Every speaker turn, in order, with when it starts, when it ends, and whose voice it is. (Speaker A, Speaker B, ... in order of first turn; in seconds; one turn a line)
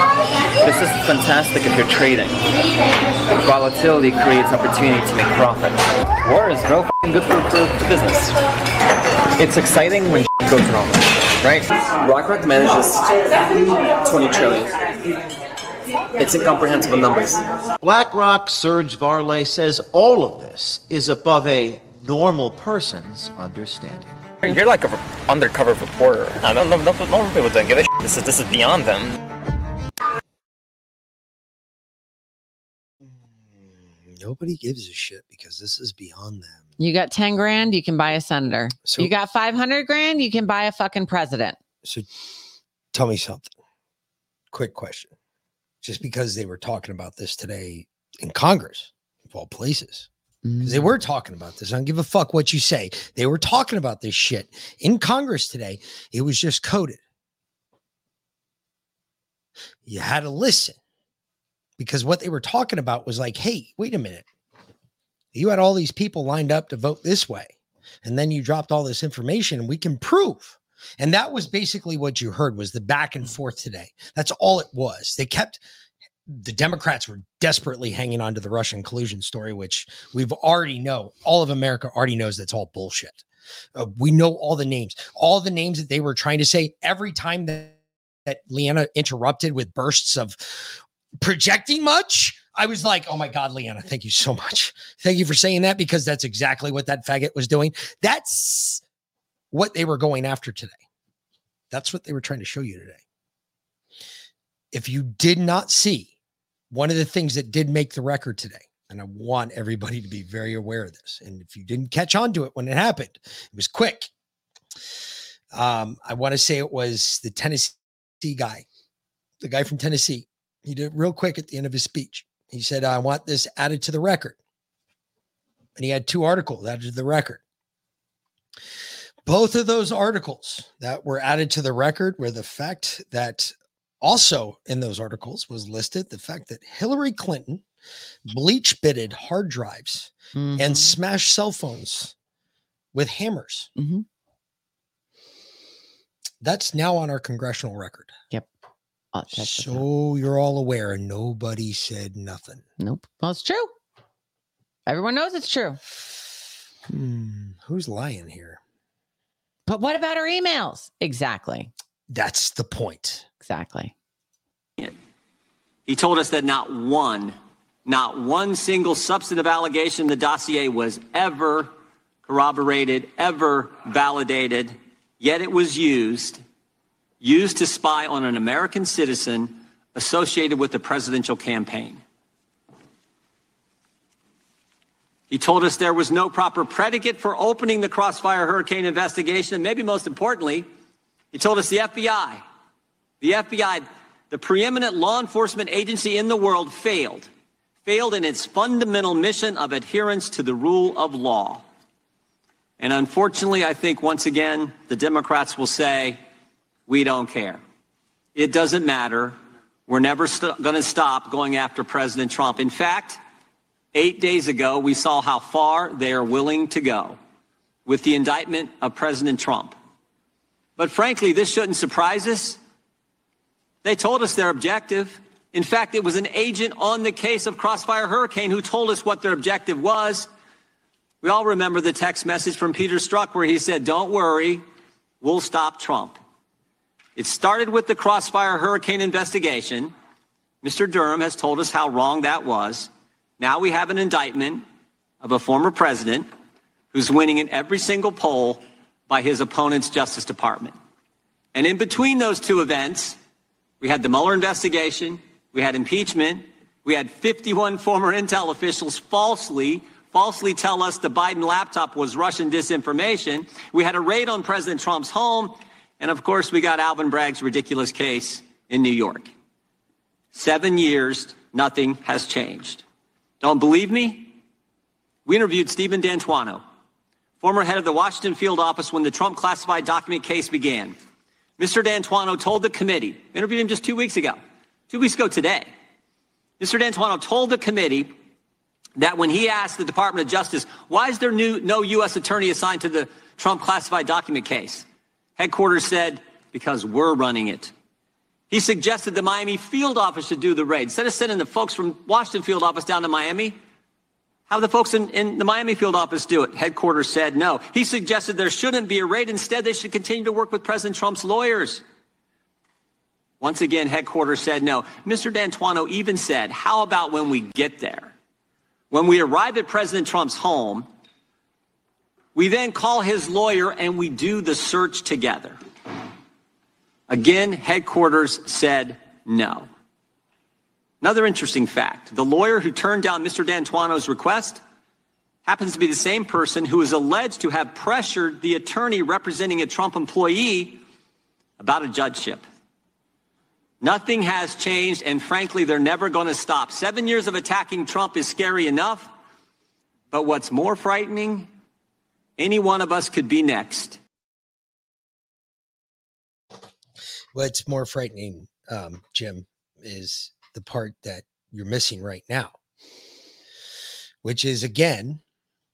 Speaker A: 0.6-2.4
Speaker A: 3.3-8.4
Speaker A: 9.3-14.8
Speaker A: 16.2-17.4
Speaker B: 17.8-24.1
Speaker A: 24.4-29.2
Speaker C: 33.5-36.6
Speaker D: 36.8-41.6
Speaker C: 38.9-39.1
Speaker C: 41.8-42.1
Speaker C: 42.9-43.5
Speaker C: 44.5-45.1
Speaker C: 45.8-50.1
Speaker D: 50.5-50.9
Speaker C: 50.6-57.0
Speaker C: 59.9-60.8
Speaker C: 61.8-64.3
Speaker C: 65.3-75.6
Speaker C: 76.3-83.2
Speaker C: 83.8-98.8
Speaker C: 99.5-100.8
Speaker C: 101.7-103.0
Speaker C: 104.7-106.1
Speaker C: 106.7-114.1
Speaker C: 115.5-118.7
Speaker C: 119.4-124.4
Speaker C: 125.8-127.4
Speaker C: 129.2-137.6
Speaker C: 138.3-142.1
Speaker D: 140.3-141.0
Speaker C: 142.9-143.7
Speaker D: 143.8-144.1
Speaker C: 146.4-148.1
Speaker D: 149.1-149.8
Speaker C: 149.3-152.6
Speaker D: 152.8-153.7
Speaker D: 154.9-155.8
Speaker C: 156.9-158.6
Speaker D: 159.7-161.7
Speaker C: 162.1-163.2
Speaker D: 163.4-163.9
Speaker E: 165.9-171.7
Speaker E: 172.2-176.4
Speaker E: 177.2-182.0
Speaker E: 185.3-190.7
Speaker E: 191.3-192.4
Speaker E: 193.2-197.3
Speaker E: 197.8-201.6
Speaker E: 202.8-206.2
Speaker E: 206.9-207.6
Speaker E: 208.4-213.2
Speaker E: 213.9-217.2
Speaker E: 217.9-219.8
Speaker E: 220.8-222.6
Speaker E: 223.8-230.3
Speaker E: 231.2-234.6
Speaker E: 235.2-236.2
Speaker E: 237.2-239.9
Speaker E: 240.6-244.6
Speaker E: 245.2-246.3
Speaker E: 246.9-250.8
Speaker E: 251.6-253.2
Speaker E: 253.8-269.3
Speaker E: 270.3-272.8
Speaker E: 273.4-274.4
Speaker E: 275.3-276.6
Speaker E: 277.4-281.0
Speaker E: 281.6-285.7
Speaker E: 286.6-288.1
Speaker E: 289.0-294.9
Speaker E: 295.4-297.7
Speaker E: 298.5-303.6
Speaker E: 304.5-311.8
Speaker E: 313.4-318.1
Speaker E: 318.9-320.9
Speaker E: 322.4-325.6
Speaker E: 327.1-329.7
Speaker E: 331.0-334.6
Speaker E: 335.4-340.8
Speaker E: 341.6-342.4
Speaker E: 343.8-349.1
Speaker E: 350.1-351.5
Speaker E: 352.4-354.0
Speaker C: 357.3-362.6
Speaker C: 364.2-365.2